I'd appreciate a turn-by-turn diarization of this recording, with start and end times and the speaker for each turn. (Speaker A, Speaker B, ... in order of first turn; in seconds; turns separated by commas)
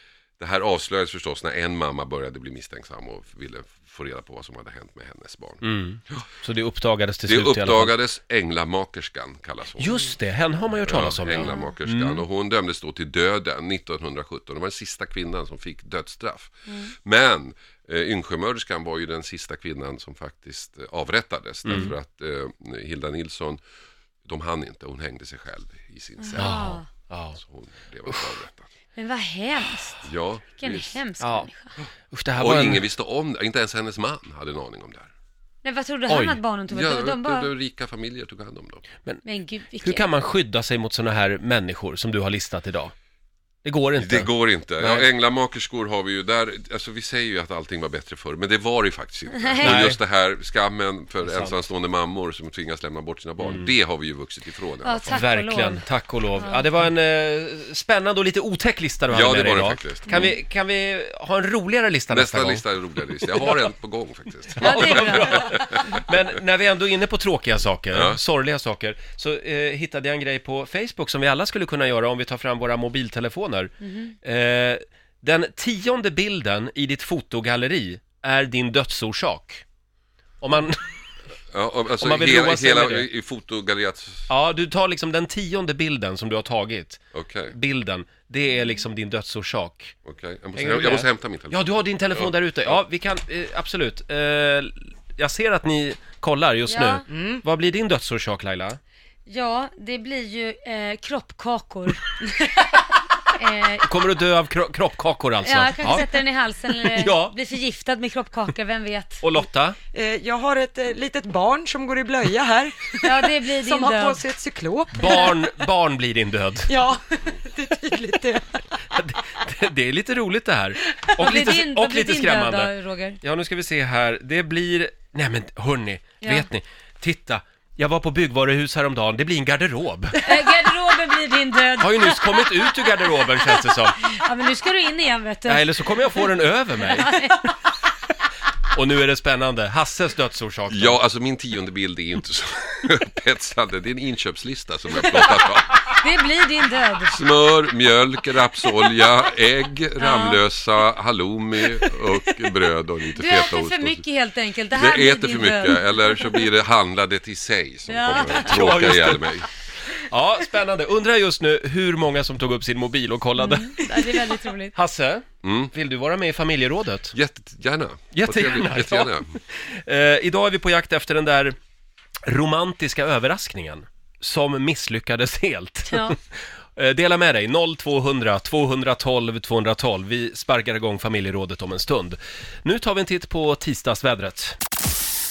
Speaker A: 0.4-6.2, Speaker B: 5.6-8.0, Speaker A: 7.2-10.1, Speaker B: 9.8-12.2, Speaker A: 10.8-23.6, Speaker C: 11.3-11.7, Speaker B: 21.6-21.9, Speaker A: 24.2-26.8, Speaker C: 26.2-26.9, Speaker B: 26.4-27.4, Speaker A: 27.3-28.7, Speaker B: 28.1-28.3, Speaker C: 28.9-31.8, Speaker A: 30.0-31.0, Speaker B: 31.2-31.5, Speaker B: 32.1-32.9, Speaker A: 32.4-35.1, Speaker C: 35.6-37.5, Speaker B: 36.1-36.4, Speaker A: 36.7-38.8, Speaker C: 39.2-40.1, Speaker B: 39.8-42.9, Speaker B: 43.6-45.1, Speaker A: 44.0-55.3, Speaker B: 49.6-50.0, Speaker B: 51.2-51.5, Speaker B: 53.4-53.7, Speaker C: 54.8-55.9, Speaker B: 55.1-63.5, Speaker C: 56.4-56.7, Speaker A: 59.1-60.4, Speaker A: 62.1-66.0, Speaker B: 64.6-79.6, Speaker C: 64.6-65.6, Speaker A: 67.9-68.2, Speaker C: 73.8-74.1, Speaker B: 80.4-81.0, Speaker A: 81.5-84.3, Speaker B: 82.0-83.1, Speaker B: 84.3-89.9, Speaker A: 87.1-87.5, Speaker A: 90.0-92.7, Speaker B: 90.5-98.8, Speaker C: 96.7-97.0, Speaker D: 97.1-97.4, Speaker C: 99.3-102.6, Speaker C: 103.3-103.9, Speaker B: 103.8-107.3, Speaker C: 105.4-109.3, Speaker B: 109.2-109.8, Speaker D: 109.9-115.3, Speaker C: 113.0-114.2, Speaker B: 114.9-116.7, Speaker D: 116.7-118.6, Speaker B: 118.8-130.3, Speaker C: 121.2-123.2, Speaker C: 126.2-126.5, Speaker C: 130.2-137.5, Speaker B: 131.8-134.0, Speaker B: 135.4-137.1, Speaker B: 138.7-141.0, Speaker A: 140.7-146.0, Speaker C: 145.9-147.2, Speaker A: 147.1-154.0, Speaker C: 150.0-150.4, Speaker C: 153.2-156.5, Speaker A: 154.7-159.5, Speaker C: 157.9-158.6, Speaker B: 158.3-159.4, Speaker B: 160.0-167.2, Speaker C: 163.4-164.8, Speaker A: 165.4-165.7, Speaker A: 167.1-169.3, Speaker B: 168.1-171.6, Speaker B: 172.2-176.1, Speaker C: 175.9-176.2, Speaker B: 176.7-184.6